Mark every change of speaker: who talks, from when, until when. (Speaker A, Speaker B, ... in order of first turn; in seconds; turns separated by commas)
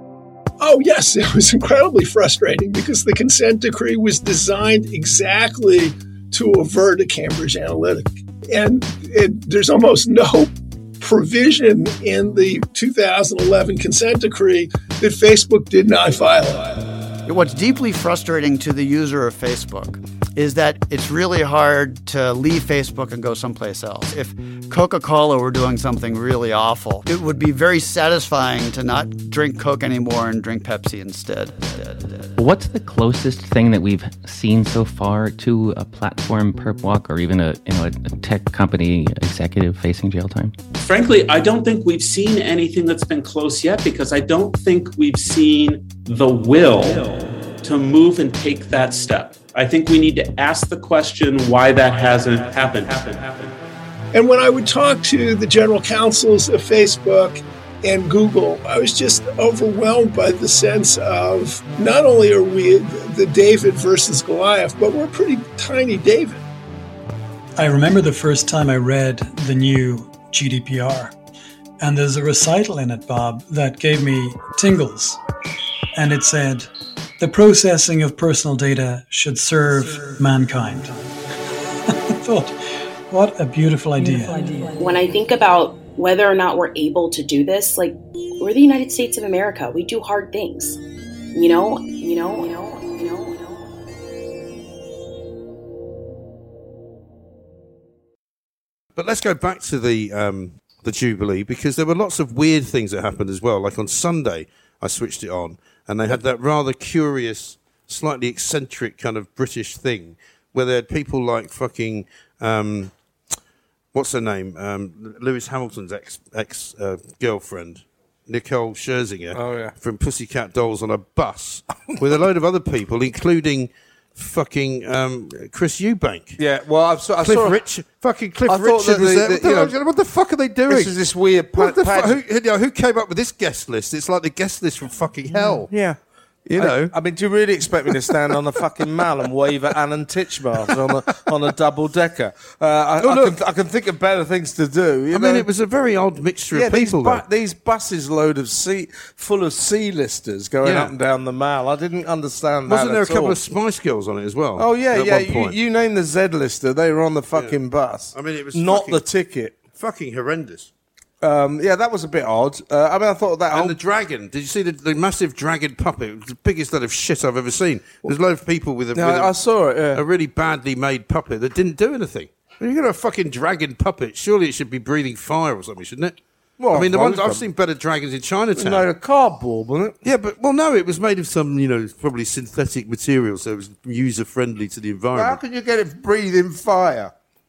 Speaker A: 0.6-16.9, Speaker B: 17.3-32.3, Speaker C: 32.4-40.5, Speaker D: 40.8-53.5, Speaker A: 54.1-66.4, Speaker E: 67.6-71.2, Speaker E: 71.8-75.2, Speaker E: 76.0-76.7, Speaker E: 77.2-81.1, Speaker E: 81.9-82.6, Speaker E: 83.1-84.7, Speaker F: 84.8-90.8, Speaker F: 91.3-93.7, Speaker G: 99.0-112.9, Speaker G: 113.9-126.4, Speaker H: 119.3-119.7, Speaker H: 126.4-127.6, Speaker G: 127.2-131.0, Speaker H: 128.5-129.7, Speaker H: 130.7-132.2, Speaker G: 131.6-135.7, Speaker H: 135.3-136.0, Speaker G: 136.5-136.9, Speaker H: 136.6-145.5, Speaker G: 143.0-143.4, Speaker G: 145.1-147.2, Speaker H: 146.5-153.4, Speaker G: 150.6-150.9, Speaker G: 152.7-155.6, Speaker H: 154.6-159.6, Speaker G: 158.1-159.0, Speaker G: 159.7-160.7, Speaker H: 161.2-163.8, Speaker G: 163.5-169.3, Speaker H: 168.9-170.0, Speaker G: 169.9-176.2, Speaker H: 176.6-177.5, Speaker G: 176.7-178.9, Speaker H: 178.6-180.0, Speaker G: 180.0-185.4, Speaker H: 185.1-187.1